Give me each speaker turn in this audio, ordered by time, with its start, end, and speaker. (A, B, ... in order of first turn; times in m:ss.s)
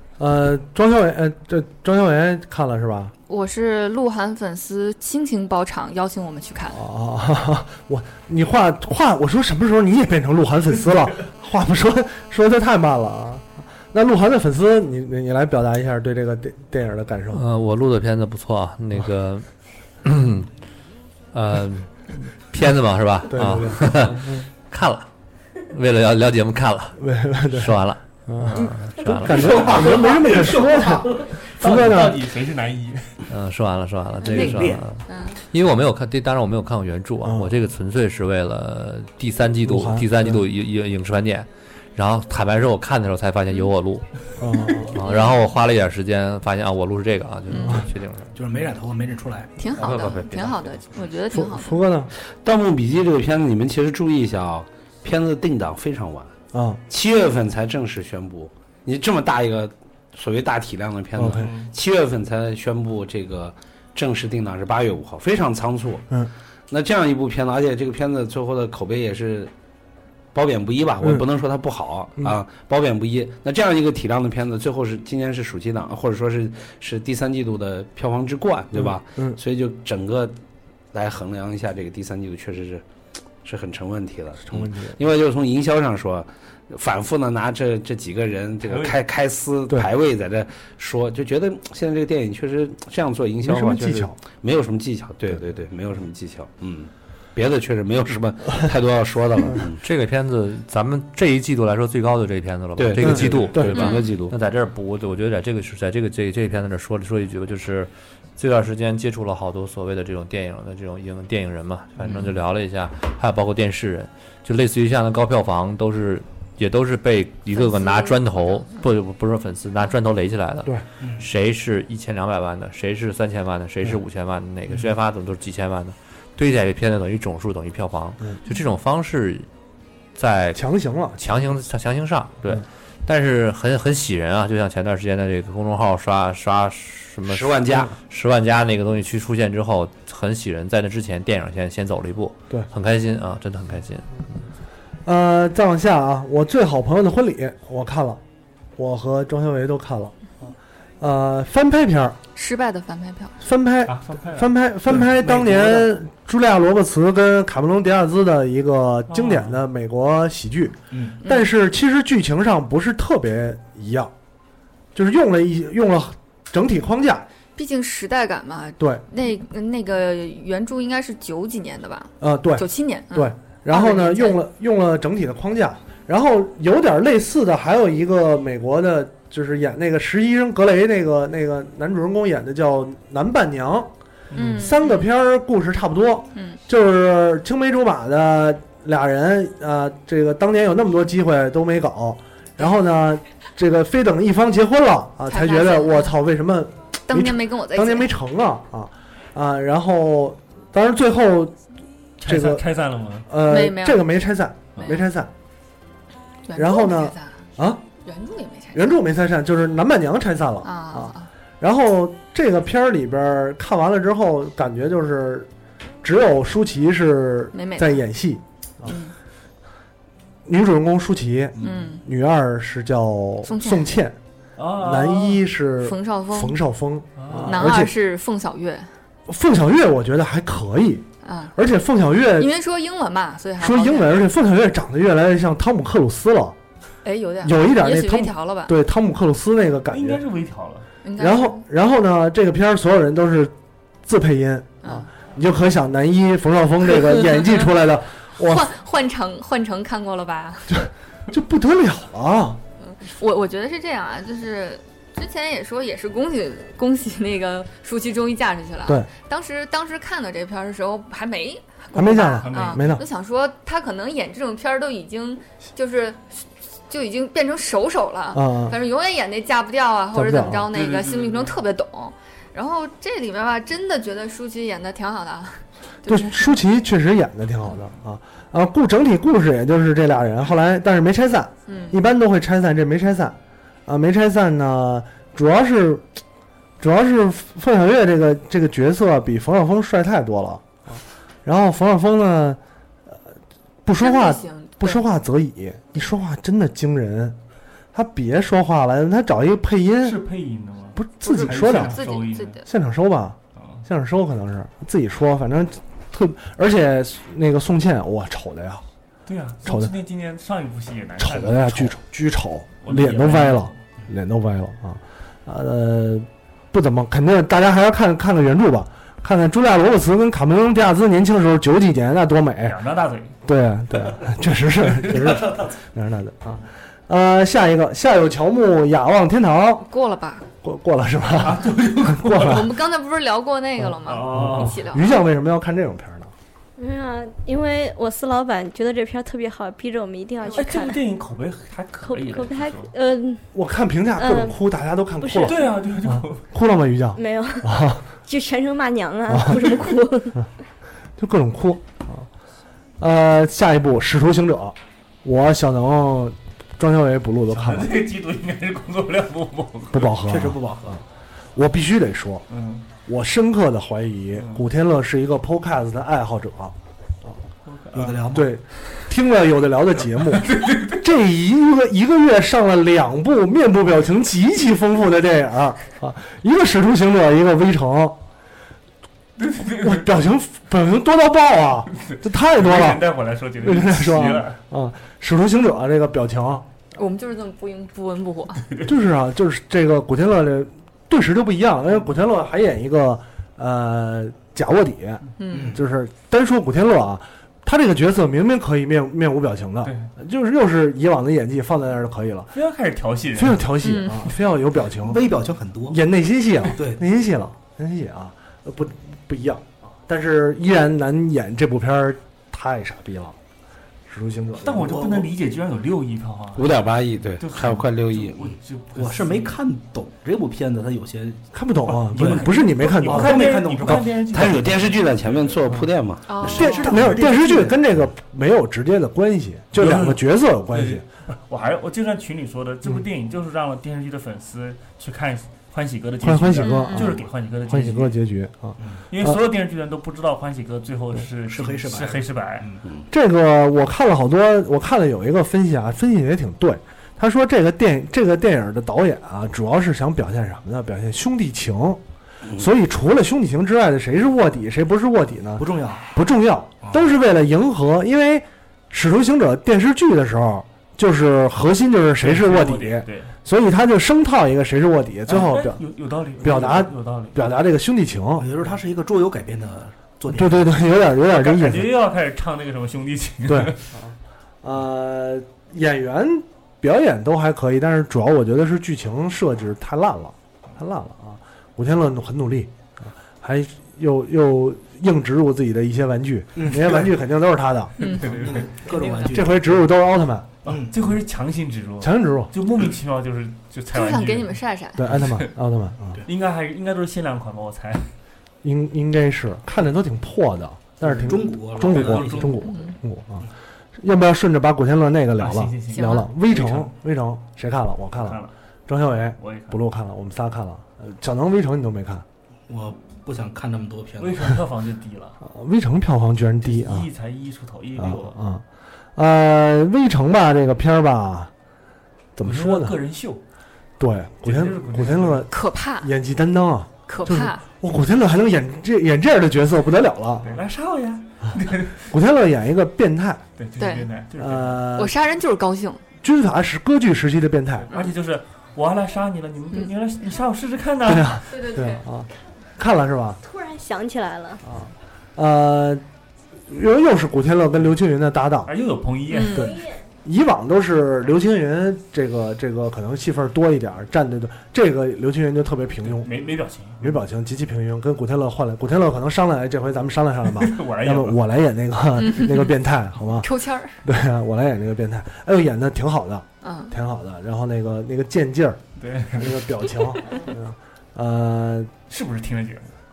0:00.2-0:03.1 A
0:03.3-0:06.8 B
0:06.7-0:17.4 A
0:17.3-0:19.5 C
0:20.0-0:20.5 C
0:21.3-0:21.9 C
0:22.5-0:25.1 C
0:23.3-0:24.2 A
0:25.7-0:27.0 C
0:27.0-0:32.2 A
0:27.5-0:29.9 C
0:29.3-0:33.2 D
0:33.3-0:44.1 C
0:34.2-0:35.4 B
0:34.3-0:34.8 D
0:37.2-0:37.5 A
0:39.6-0:40.4 A
0:44.4-0:45.0 A
0:44.8-0:48.4 C
0:45.0-0:45.4 B
0:47.5-0:47.8 B
0:48.4-0:49.5 E
0:49.6-0:51.8 B
0:49.8-0:50.5 C
0:49.8-0:50.4 F
0:51.3-0:52.1 A
0:52.4-0:56.3 F
0:56.5-0:56.8 A
0:56.9-1:06.0 F
1:01.2-1:01.5 A
1:01.4-1:01.7 D
1:06.7-1:09.5 F
1:10.3-1:20.4 F
1:18.7-1:19.4 A
1:20.9-1:22.8 F
1:23.4-1:39.8 F
1:24.5-1:25.0 A
1:28.7-1:29.0 D
1:33.4-1:34.2 A
1:39.8-2:09.5 C
1:42.8-1:44.4 F
1:43.0-1:43.8 A
1:43.7-1:44.0 B
1:57.6-1:58.2 B
2:01.0-2:01.3 E
2:10.2-2:10.6 C
2:10.6-2:11.3 A
2:11.2-2:24.1 C
2:17.3-2:17.9 F
2:25.1-2:28.2 A
2:28.8-2:30.2 A
2:31.0-2:32.2 A
2:32.4-2:33.3 B
2:33.4-2:44.1 A
2:33.9-2:35.8 D
2:39.1-2:39.6 D
2:40.9-2:41.2 E
2:45.0-2:47.3 A
2:47.6-2:54.4 B
2:48.8-2:49.0 A
2:52.2-3:21.6 A
3:04.3-3:04.6 D
3:04.4-3:05.1 B
3:15.3-3:16.2 B
3:17.1-3:18.1 B
3:22.2-3:23.3 D
3:22.2-3:22.6 A
3:23.3-3:25.3 A
3:23.4-3:24.0 B
3:26.5-3:27.4 B
3:26.6-3:27.8 A
3:28.0-3:29.0 B
3:28.7-3:35.5 A
3:30.6-3:31.3 B
3:36.0-3:39.0 A
3:37.5-3:38.0 B
3:38.9-3:39.1 B
3:40.5-3:44.2 A
3:41.6-3:42.0 B
3:43.4-3:44.0 B
3:44.6-3:45.4 D
3:44.7-3:47.9 A
3:45.8-3:46.6 B
3:47.2-3:47.5 D
3:47.5-3:48.9 B
3:49.3-3:52.5 A
3:51.2-3:51.5 B
3:52.4-3:54.2 B
3:53.6-3:56.6 A
3:57.0-3:58.8 B
3:57.4-4:00.2 A
3:59.9-4:00.9 D
4:01.0-4:01.6 B
4:01.2-4:03.5 A
4:04.0-4:08.7 A
4:08.4-4:10.8 B
4:10.7-4:12.6 A
4:12.8-4:36.6 B
4:21.9-4:23.0 A
4:22.2-4:22.9 D
4:28.3-4:28.8 A
4:30.1-4:30.7 A
4:30.7-4:31.6 D
4:36.1-4:46.1 A
4:41.7-4:42.0 B
4:46.8-4:52.6 A
4:53.8-4:57.4 A
4:54.0-4:55.0 B
4:57.9-5:00.2 A
5:00.0-5:02.6 D
5:01.0-5:02.1 A
5:01.2-5:02.7 B
5:02.6-5:08.9 A
5:09.3-5:12.0 D
5:09.6-5:10.0 A
5:11.2-5:22.8 A
5:12.8-5:13.8 D
5:22.6-5:23.4 D
5:23.4-5:29.9 A
5:29.9-5:30.5 B
5:30.6-5:32.7 A
5:31.4-5:32.6 D
5:32.3-5:35.1 B
5:33.8-5:36.3 A
5:34.1-5:34.8 D
5:36.8-5:41.0 G
5:40.6-5:42.9 D
5:42.0-5:43.4 G
5:43.5-5:48.0 A
5:44.2-5:44.6 G
5:45.2-5:45.8 G
5:45.4-5:46.4 D
5:47.2-5:50.4 G
5:49.3-5:49.9 A
5:51.2-5:52.3 A
5:53.0-5:58.0 A
5:57.5-6:00.1 D
5:59.9-6:01.0 A
6:00.2-6:01.0 E
6:01.6-6:02.4 A
6:02.5-6:02.9 D
6:03.1-6:07.4 A
6:04.4-6:04.6 D
6:07.7-6:08.2 D
6:07.9-6:08.5 E
6:08.0-6:18.2 A
6:10.3-6:11.0 D
6:19.4-6:20.2 D
6:19.7-6:26.7 A
6:22.0-6:24.6 D
6:27.0-6:28.7 B
6:28.8-6:42.5 A
6:35.4-6:35.7 B
6:35.5-6:35.8 E
6:39.8-6:40.1 D
6:42.6-6:43.7 D
6:43.4-6:45.2 A
6:43.8-6:44.2 B
6:44.9-6:46.0 E
6:45.9-6:53.4 A
6:46.8-6:47.0 E
6:54.1-6:55.1 A
6:54.6-6:56.8 D
6:54.9-6:55.3 E
6:56.6-6:58.5 F
6:57.4-6:59.6 D
6:58.9-7:01.5 E
7:01.5-7:03.6 A
7:01.9-7:05.6 D
7:02.0-7:04.6 E
7:04.3-7:06.7 F
7:06.3-7:06.8 B
7:06.4-7:11.0 A
7:06.7-7:07.8 E
7:06.8-7:07.3 D
7:09.8-7:18.2 D
7:16.2-7:19.4 A
7:16.6-7:17.1 B
7:19.1-7:22.7 D
7:21.5-7:22.8 E
7:23.1-7:32.0 A
7:32.5-7:45.8 A
7:35.6-7:36.1 E
7:42.2-7:43.3 D
7:45.3-7:47.4 D
7:46.4-7:48.5 A
7:48.4-7:50.8 E
7:50.3-7:51.9 A
7:51.2-7:53.9 D
7:53.5-8:08.0 A
8:06.6-8:07.1 E
8:08.0-8:09.2 D
8:08.0-8:09.8 E
8:09.3-8:10.6 A
8:10.6-8:11.0 E
8:10.6-8:14.6 D
8:12.0-8:12.5 A
8:13.9-8:15.0 B
8:15.0-8:16.2 A
8:15.1-8:15.5 D
8:16.3-8:18.1 D
8:18.6-8:32.2 A
8:21.0-8:22.6 E
8:21.8-8:22.6 D
8:25.4-8:26.9 D
8:25.9-8:26.3 B
8:28.2-8:28.5 D
8:29.4-8:29.8 D
8:32.7-8:34.6 E
8:34.2-8:35.4 D
8:35.4-8:37.1 A
8:36.6-8:38.4 D
8:38.0-8:38.6 A
8:39.2-8:41.5 A
8:42.4-8:43.0 A
8:42.4-8:43.4 D
8:44.0-8:50.6 A
8:44.4-8:45.5 D
8:45.5-8:46.1 B
8:47.1-8:47.6 B
8:50.4-8:52.1 D
8:52.1-8:53.4 A
8:53.6-8:54.9 D
8:53.8-8:54.1 B
8:54.4-8:55.2 A
8:55.0-8:56.0 B
8:56.2-8:57.9 A
8:57.9-9:01.5 D
9:01.0-9:03.4 A
9:01.5-9:02.0 B
9:03.4-9:04.6 G
9:04.6-9:06.0 A
9:06.7-9:08.7 A
9:08.7-9:09.8 D
9:09.3-9:09.7 B
9:09.5-9:16.3 A
9:16.1-9:17.2 D
9:17.0-9:23.5 A
9:20.5-9:21.5 D
9:22.2-9:22.7 B
9:23.4-9:24.0 B
9:24.0-9:28.8 A
9:26.6-9:26.9 B
9:29.0-9:30.0 D
9:29.3-9:31.9 A
9:32.1-9:32.9 D